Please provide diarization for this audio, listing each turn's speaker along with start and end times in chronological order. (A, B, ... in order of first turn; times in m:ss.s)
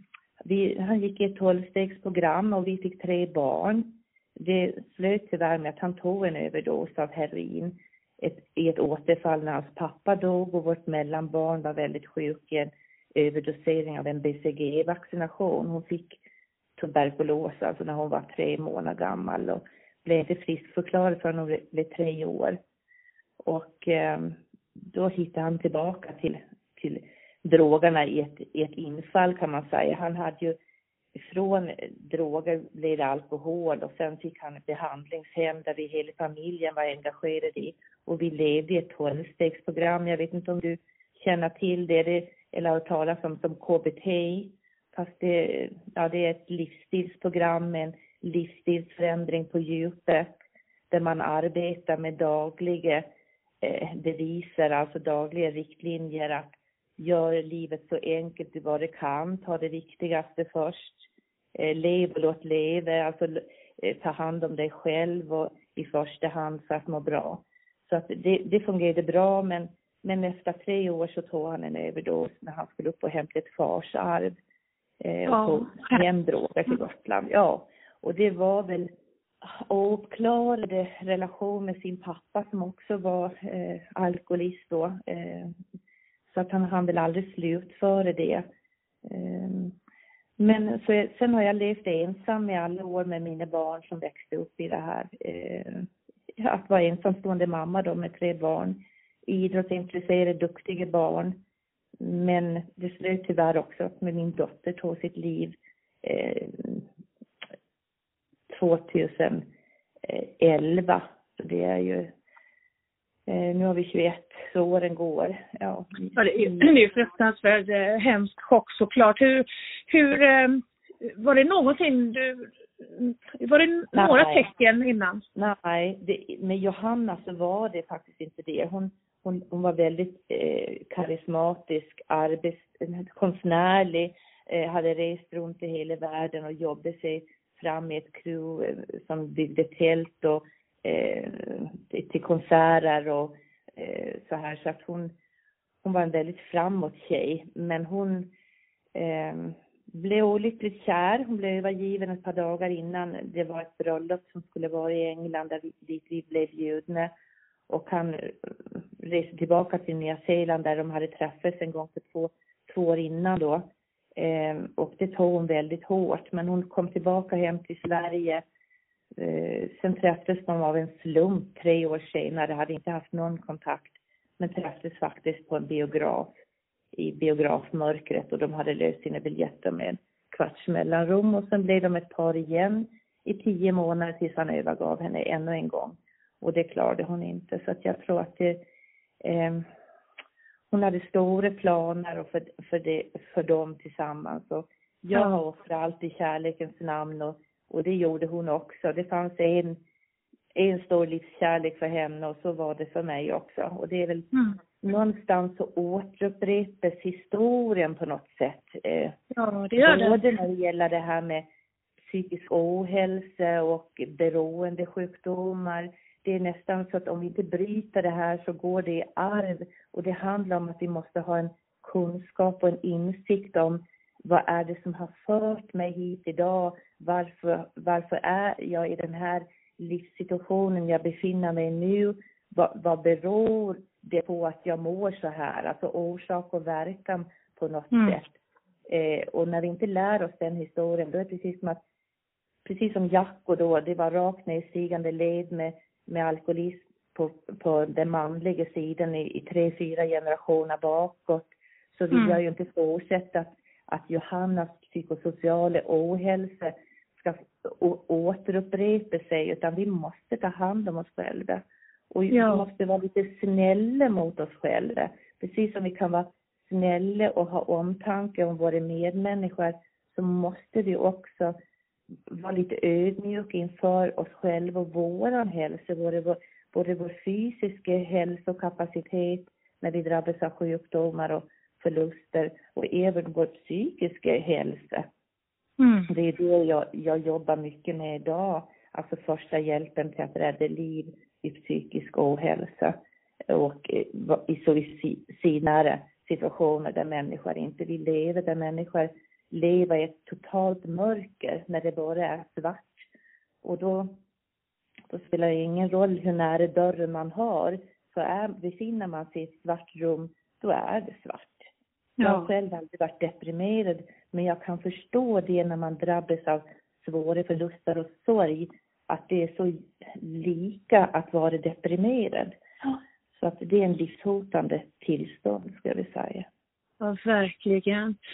0:00.4-0:16.2 A
0:16.8-0:22.6 A
0:23.4-0:30.6 A
0:31.2-0:50.3 A
0:50.9-0:53.1 A
0:53.6-1:14.4 A
1:15.0-1:18.9 A
1:15.3-1:16.0 B
1:19.4-1:25.6 A
1:26.3-1:28.5 A
1:29.0-1:29.8 A
1:30.4-1:41.4 A
1:42.0-1:46.9 A
1:48.5-1:49.5 A
1:50.0-1:52.1 A
1:53.3-1:56.7 A
1:56.2-2:05.2 B
2:03.9-2:04.5 A
2:05.4-2:25.2 A
2:25.8-2:28.3 A
2:29.0-2:37.1 A
2:37.7-2:48.4 A
2:49.2-2:56.3 A
2:56.9-3:08.6 A
3:09.2-3:09.7 A
3:10.7-3:19.8 A
3:15.1-3:15.4 B
3:20.6-3:24.3 A
3:24.3-3:24.6 B
3:24.8-3:29.2 A
3:29.3-3:30.2 B
3:29.8-3:31.5 A
3:32.0-3:58.4 A
3:57.9-3:58.2 B
3:58.9-4:01.8 A
4:02.6-4:31.6 A
4:12.1-4:12.4 B
4:22.3-4:22.7 B
4:32.3-4:45.1 A
4:45.8-4:46.1 B
4:46.1-4:53.0 A
4:53.5-5:03.1 A
5:03.6-5:04.2 A
5:05.1-5:11.7 A
5:12.2-5:12.5 B
5:12.2-5:22.6 A
5:23.4-5:26.5 A
5:27.0-5:28.2 B